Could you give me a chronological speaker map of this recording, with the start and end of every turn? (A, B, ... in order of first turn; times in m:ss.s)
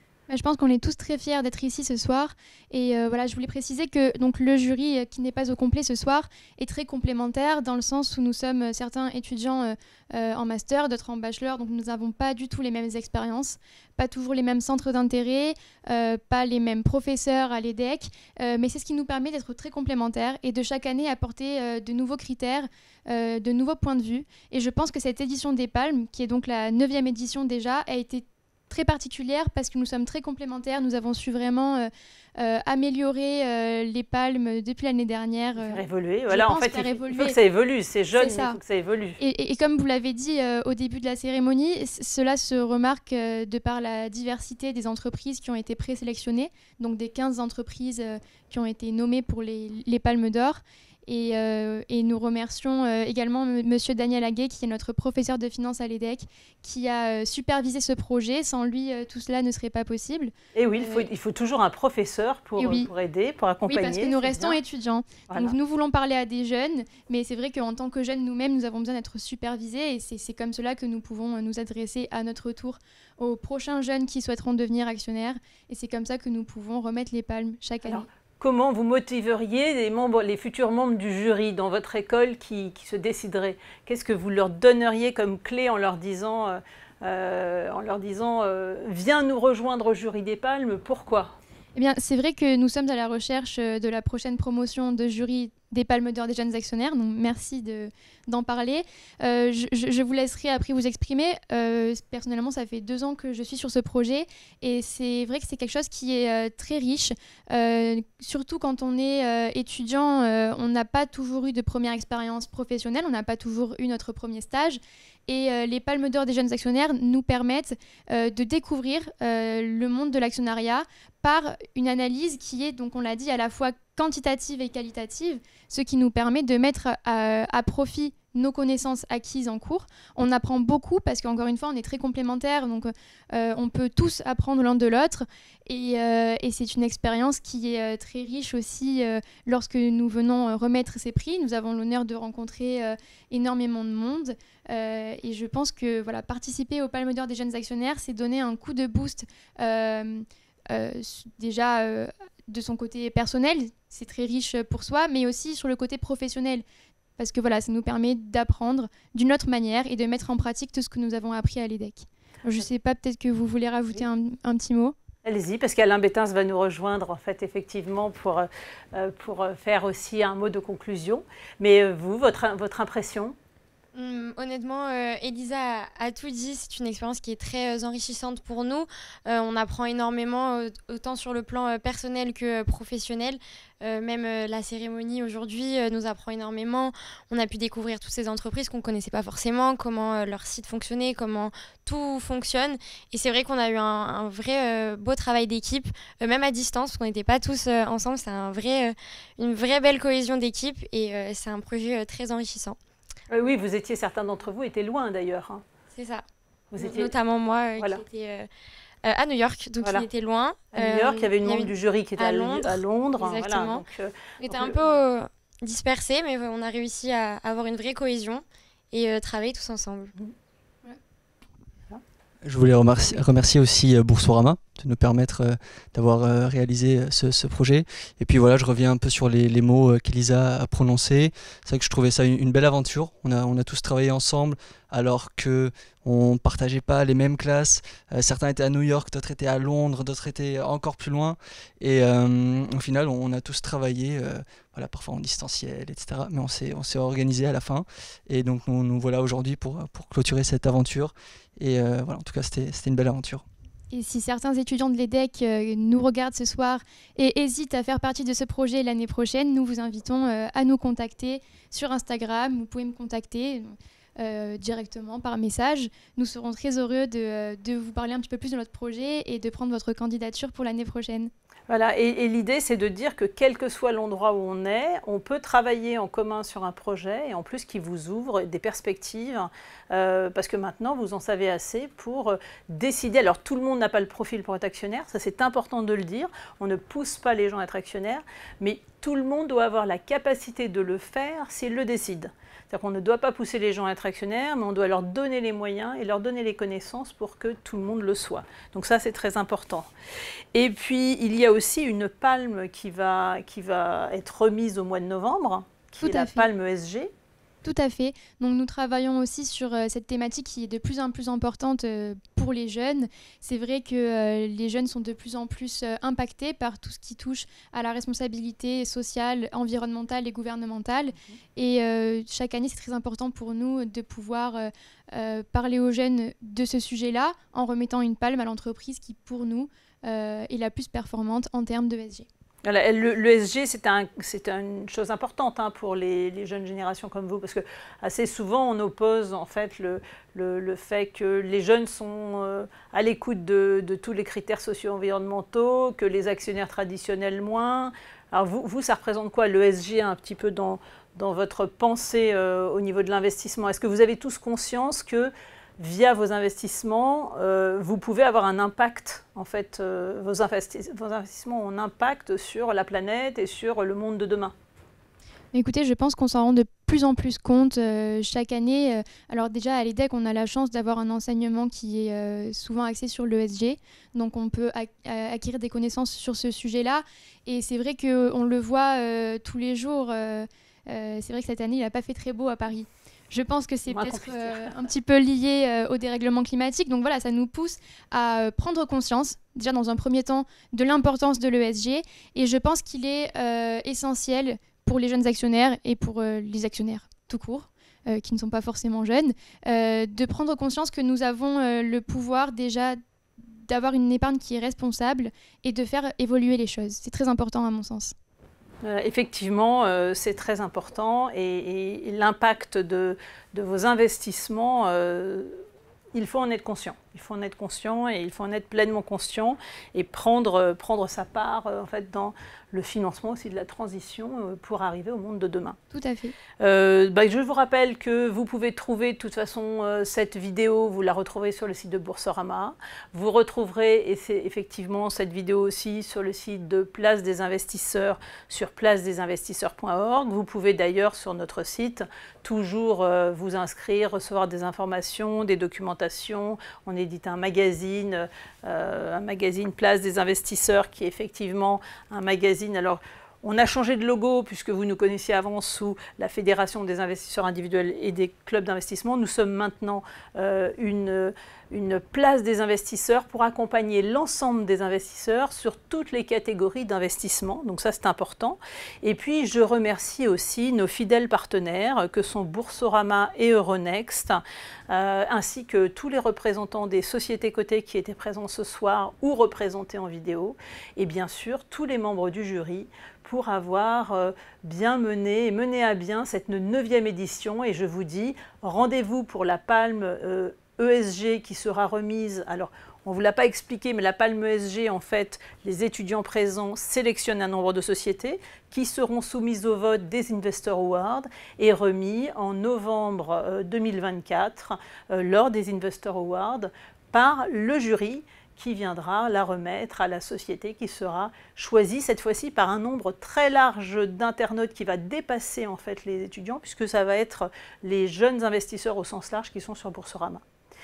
0:00.3-0:37.4 A
0:35.6-0:39.2 B
0:38.2-0:38.6 A
0:39.2-1:01.1 A
1:00.6-1:04.6 B
1:02.6-1:02.9 A
1:03.7-1:18.1 A
1:05.3-1:05.6 B
1:17.9-1:31.4 B
1:31.8-2:36.6 A
2:37.2-2:45.0 A
2:45.2-2:53.4 B
2:54.0-3:22.8 C
3:23.3-3:25.6 B
3:26.0-3:26.2 C
3:26.7-3:27.1 B
3:26.8-3:28.5 C
3:27.8-3:28.0 B
3:29.0-3:33.8 C
3:29.8-3:30.1 B
3:30.7-3:34.8 B
3:34.4-3:40.1 C
3:42.4-4:13.4 D
4:13.9-4:31.3 A
4:31.7-4:59.9 B
5:00.5-5:07.1 B
5:06.0-5:06.5 A
5:07.6-5:32.3 A
5:32.6-6:04.5 B
6:05.5-6:48.2 A
6:23.9-6:24.8 B
6:48.8-6:55.6 B
6:56.1-7:05.8 B
7:05.9-7:06.4 A
7:06.6-8:40.4 B